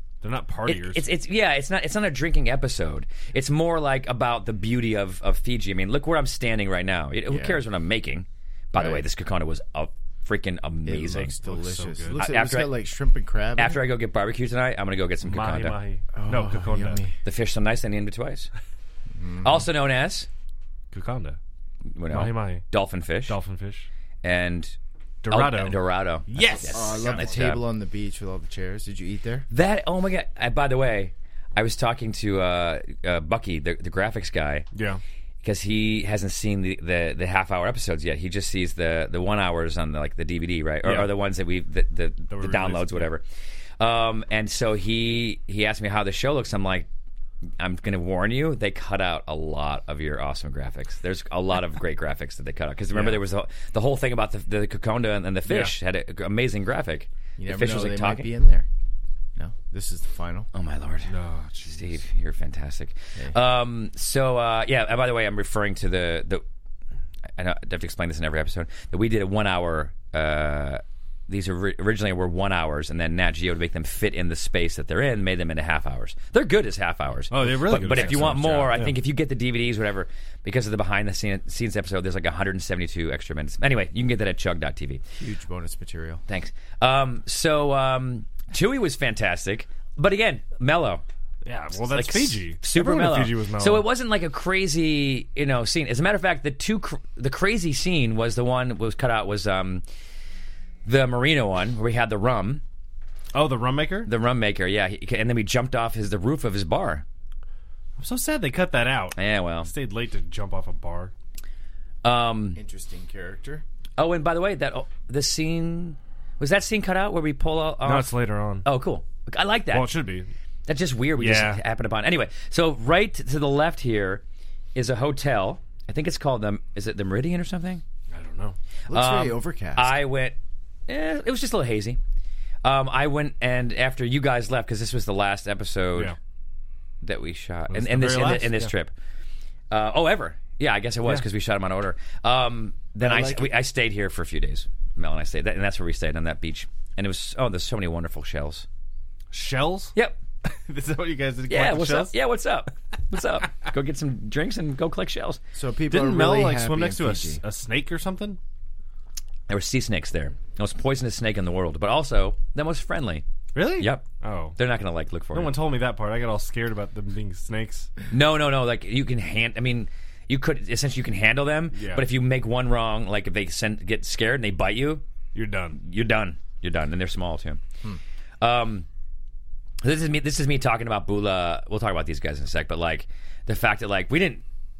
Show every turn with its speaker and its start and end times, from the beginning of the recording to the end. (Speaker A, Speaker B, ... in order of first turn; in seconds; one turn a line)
Speaker A: 0.2-1.1
Speaker B: 0.7-11.3
Speaker C: 7.3-7.6
Speaker C: 8.8-9.0
Speaker C: 10.8-13.8
Speaker A: 11.4-12.2
Speaker B: 12.2-12.7
Speaker B: 13.6-15.8
Speaker A: 15.2-17.0
Speaker C: 16.1-17.2
Speaker B: 17.2-18.5
Speaker C: 19.1-19.7
Speaker B: 19.4-20.3
Speaker A: 20.9-21.4
Speaker B: 21.9-23.4
Speaker A: 22.1-22.6
Speaker A: 23.3-23.9
Speaker B: 24.2-24.8
Speaker A: 25.2-27.3
Speaker B: 25.3-27.6
Speaker C: 26.7-29.5
Speaker B: 29.5-34.7
Speaker A: 34.7-35.0
Speaker B: 35.4-43.2
Speaker A: 40.8-41.1
Speaker A: 42.3-43.1
Speaker B: 43.8-46.9
Speaker B: 47.6-58.3
Speaker A: 52.9-53.2
Speaker A: 55.5-55.7
Speaker C: 57.4-58.7
Speaker C: 59.4-60.5
Speaker B: 60.5-61.1
Speaker A: 61.1-62.0
Speaker B: 61.7-66.4
Speaker B: 67.4-85.0
Speaker A: 77.3-78.9
Speaker C: 85.2-86.2
Speaker B: 86.3-91.0
Speaker A: 91.4-93.8
Speaker B: 91.8-99.8
Speaker B: 100.8-102.6
Speaker A: 103.3-104.1
Speaker B: 104.1-107.0
Speaker A: 108.0-111.1
Speaker B: 109.2-109.7
Speaker B: 112.0-112.6
Speaker C: 112.5-113.6
Speaker B: 114.0-118.1
Speaker A: 117.8-118.7
Speaker B: 118.6-119.9
Speaker A: 119.7-120.3
Speaker B: 120.7-124.2
Speaker A: 121.2-121.6
Speaker B: 124.8-127.8
Speaker A: 128.1-128.6
Speaker C: 128.9-130.0
Speaker B: 128.9-130.4
Speaker B: 130.9-132.0
Speaker B: 132.6-136.2
Speaker B: 137.0-138.9
Speaker A: 137.7-138.7
Speaker B: 139.7-148.7
Speaker C: 143.0-143.5
Speaker A: 149.3-152.1
Speaker B: 151.5-155.4
Speaker C: 155.5-157.4
Speaker A: 155.9-158.4
Speaker B: 159.5-163.2
Speaker A: 163.5-164.6
Speaker B: 163.8-164.1
Speaker B: 164.6-165.5
Speaker A: 165.3-167.9
Speaker B: 168.1-175.0
Speaker A: 171.7-172.1
Speaker A: 175.3-175.8
Speaker B: 175.8-177.6
Speaker B: 178.4-178.9
Speaker B: 179.8-184.4